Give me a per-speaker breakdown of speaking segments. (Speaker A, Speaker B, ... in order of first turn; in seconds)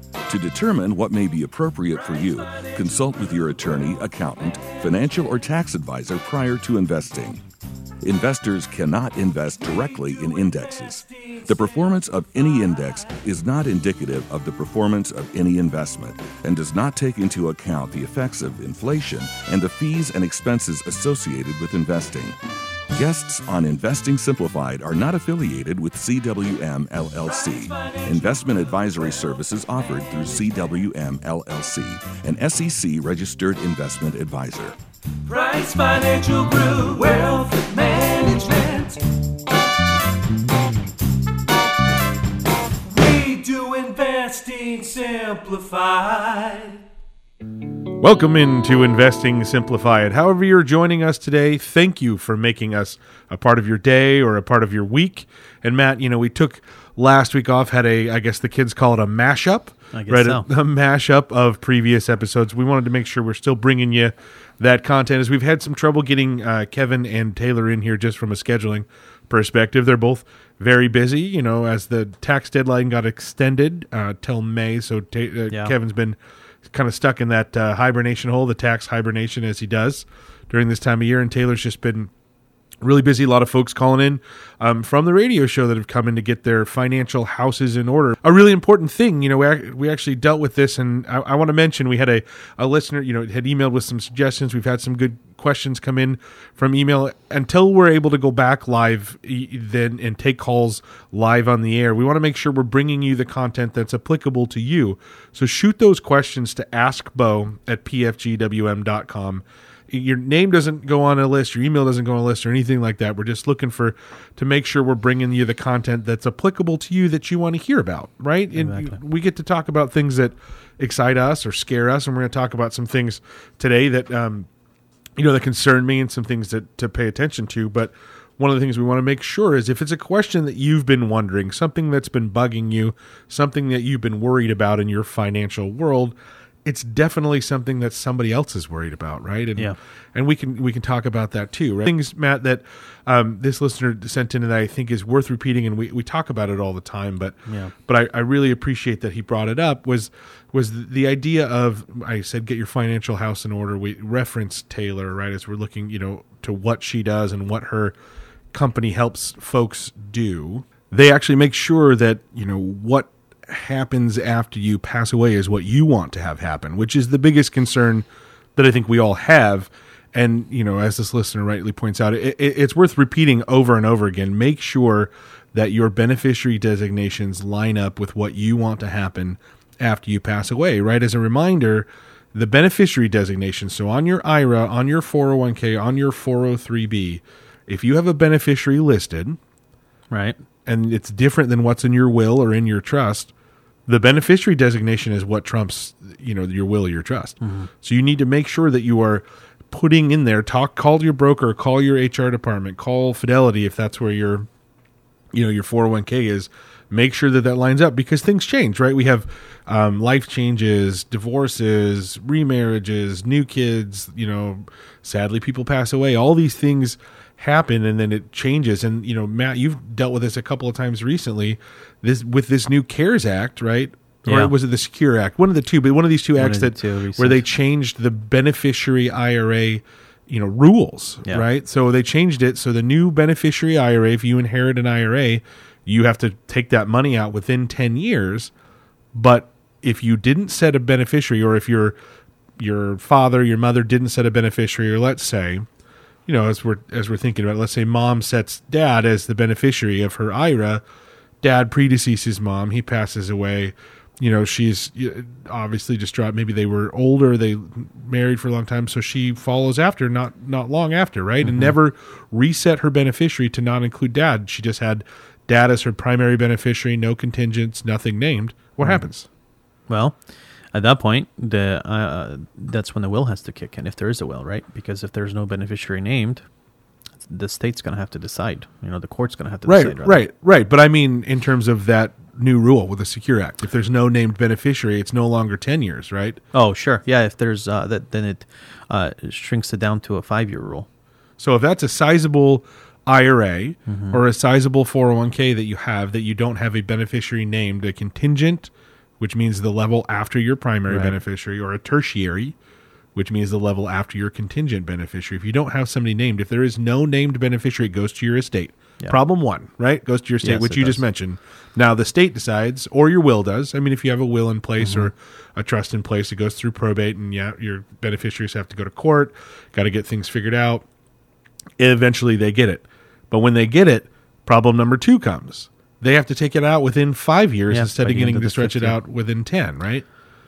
Speaker A: 0.3-7.4, 8.0-22.4, 22.9-34.7
Speaker B: 2.5-3.8, 9.6-13.1, 27.2-29.1, 35.2-39.0, 42.9-46.8
Speaker C: 48.0-82.1, 82.8-124.5, 125.2-157.9, 158.5-189.4, 190.7-193.3, 193.9-204.5, 205.3-238.5, 239.1-242.0, 242.6-245.7, 246.2-250.8, 251.4-269.3, 279.6-286.4, 291.4-302.5, 303.1-320.8, 321.8-330.0
Speaker D: 59.9-60.5, 118.5-119.0, 147.4-147.7, 190.1-190.4, 197.4-197.7, 224.2-224.5, 226.4-227.4, 261.4-261.7, 269.9-270.2, 270.7-276.4, 277.2-280.2, 286.5-290.9, 293.9-294.2, 300.9-301.2, 310.4-311.0, 314.8-315.1, 327.7-329.0